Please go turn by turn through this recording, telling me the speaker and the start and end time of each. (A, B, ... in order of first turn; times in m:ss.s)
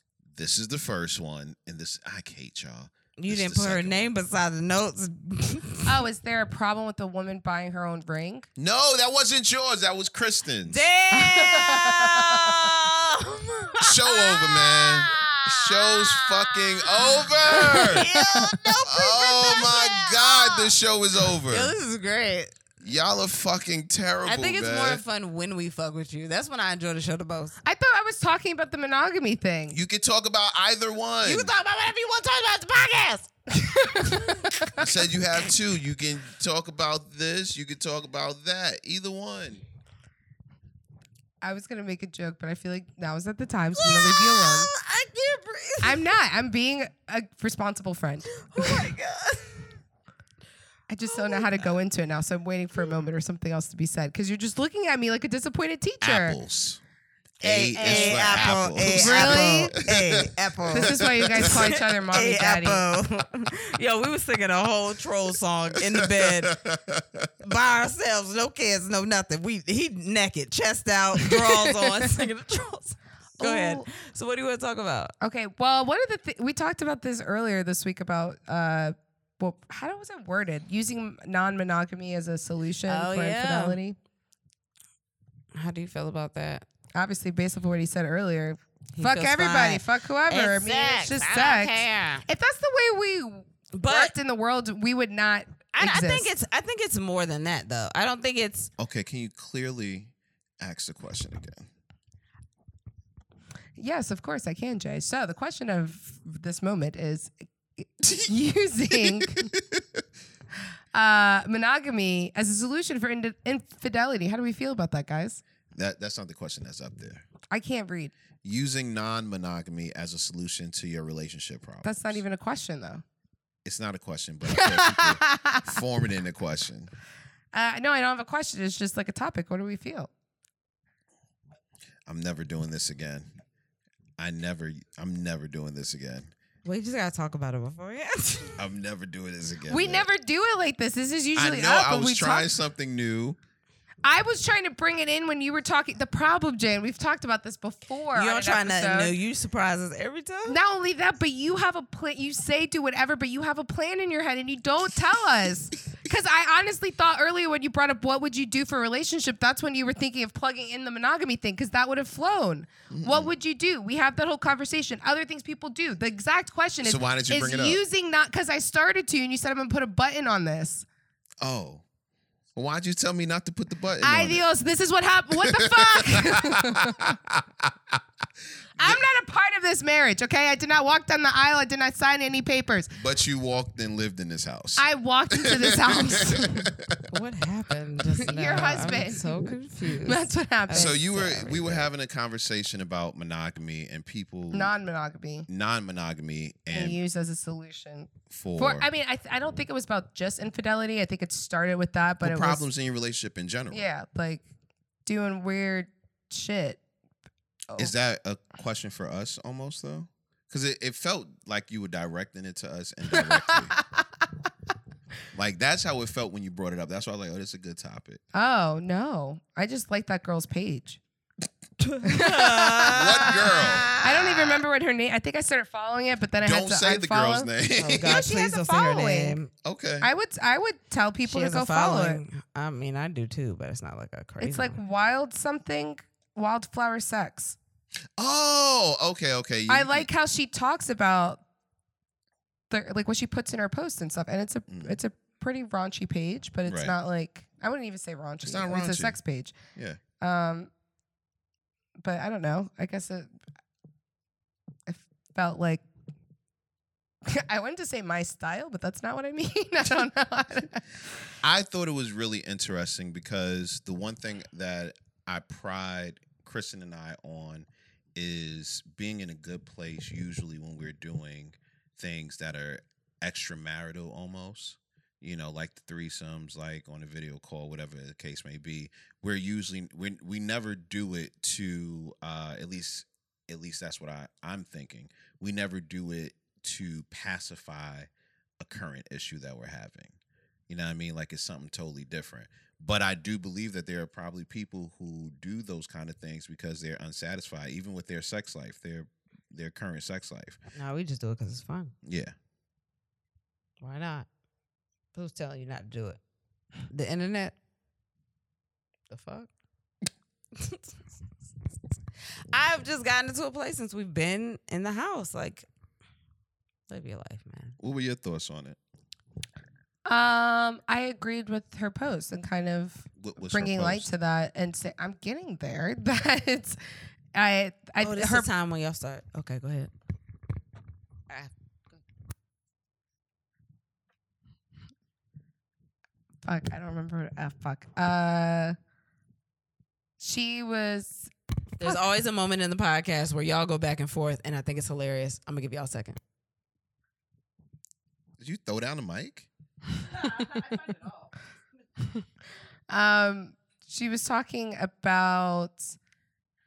0:00.3-0:04.1 A
0:03.2-0:06.0 B
0:05.9-0:08.5 C
0:08.6-0:10.9 A
0:10.7-0:20.7 B
0:11.2-0:12.6 C
0:13.8-0:18.1 A
0:17.8-0:18.6 C
0:18.8-0:21.7 A
0:21.5-0:22.6 B
0:22.8-0:25.0 A
0:24.2-0:27.6 B
0:27.6-0:29.8 C
0:29.7-0:31.5 A
0:31.2-0:33.3 B
0:33.6-0:34.9 C
0:33.9-0:34.6 B
0:34.8-0:39.6 A
0:41.4-0:44.7 C
0:43.8-0:46.1 B
0:45.8-0:48.9 C
0:48.3-0:49.7 B
0:50.9-0:56.4 C
0:51.0-0:51.7 B
0:56.0-0:56.8 A
0:57.4-1:01.6 A
0:57.4-1:06.6 B
0:57.8-0:59.8 C
1:00.7-1:02.8 C
1:05.9-1:07.3 A
1:07.4-1:15.1 B
1:11.3-1:12.0 C
1:13.4-1:13.8 C
1:15.2-1:24.0 C
1:22.9-1:23.8 B
1:25.5-1:26.6 B
1:27.0-1:36.3 C
1:29.0-1:32.2 B
1:33.7-1:34.1 B
1:35.8-1:38.7 B
1:38.8-1:41.7 A
1:43.8-1:49.5 C
1:48.0-1:48.3 A
1:48.9-1:50.0 A
1:50.9-1:55.4 C
1:55.7-1:57.2 A
1:57.5-1:58.2 C
1:58.4-2:02.2 A
2:01.8-2:03.0 C
2:03.6-2:06.9 A
2:04.5-2:05.8 C
2:07.5-2:10.1 C
2:12.1-2:13.3 A
2:14.2-2:16.3 A
2:16.6-2:18.6 B
2:18.6-2:20.1 A
2:19.7-2:22.5 C
2:21.4-2:23.4 A
2:24.0-2:29.2 C
2:28.1-2:30.6 B
2:30.4-2:50.8 C
2:42.9-2:43.3 A
2:46.8-2:47.8 A
2:51.4-2:51.8 A
2:52.6-2:54.4 A
2:54.0-2:57.1 C
2:55.4-2:58.0 A
2:58.8-3:03.0 C
3:03.0-3:07.0 A
3:04.8-3:06.7 C
3:07.1-3:11.5 B
3:08.2-3:11.8 C
3:10.7-3:14.7 A
3:14.5-3:15.5 C
3:15.5-3:17.0 A
3:16.7-3:22.6 C
3:18.3-3:18.9 A
3:22.2-3:23.9 A
3:23.7-3:24.4 C
3:25.1-3:26.8 C
3:27.8-3:33.8 A
3:33.2-3:34.0 C
3:35.3-3:38.2 A
3:38.3-3:41.0 C
3:41.8-3:44.2 B
3:42.0-3:49.4 C
3:42.9-3:44.6 A
3:46.4-3:48.3 A
3:47.8-3:49.5 B
3:49.6-3:50.1 A
3:50.0-3:52.2 C
3:51.2-3:54.8 B
3:54.4-3:57.6 C
3:58.2-4:00.1 A
3:59.7-4:01.4 C
4:02.7-4:09.5 C
4:04.7-4:05.0 A
4:06.7-4:07.0 A
4:08.4-4:09.2 A
4:09.8-4:10.0 A
4:10.2-4:10.7 C
4:12.0-4:13.3 C
4:14.9-4:15.8 C
4:17.2-4:20.8 C
4:21.4-4:50.2 A
4:50.7-5:00.6 A
5:00.8-5:01.9 B
5:02.0-5:02.4 A
5:03.8-5:04.3 B
5:05.1-5:06.2 B
5:06.9-5:07.6 B
5:09.1-5:09.5 B
5:10.6-5:11.0 B
5:12.5-5:15.7 B
5:16.9-5:17.8 B
5:17.8-5:18.8 A
5:20.1-5:26.8 C
5:23.2-5:24.1 A
5:27.3-5:28.5 C
5:28.0-5:29.9 B
5:36.4-5:38.8 C
5:40.2-5:41.3 C
5:41.8-5:46.2 B
5:48.4-5:49.5 A
5:52.9-5:56.0 C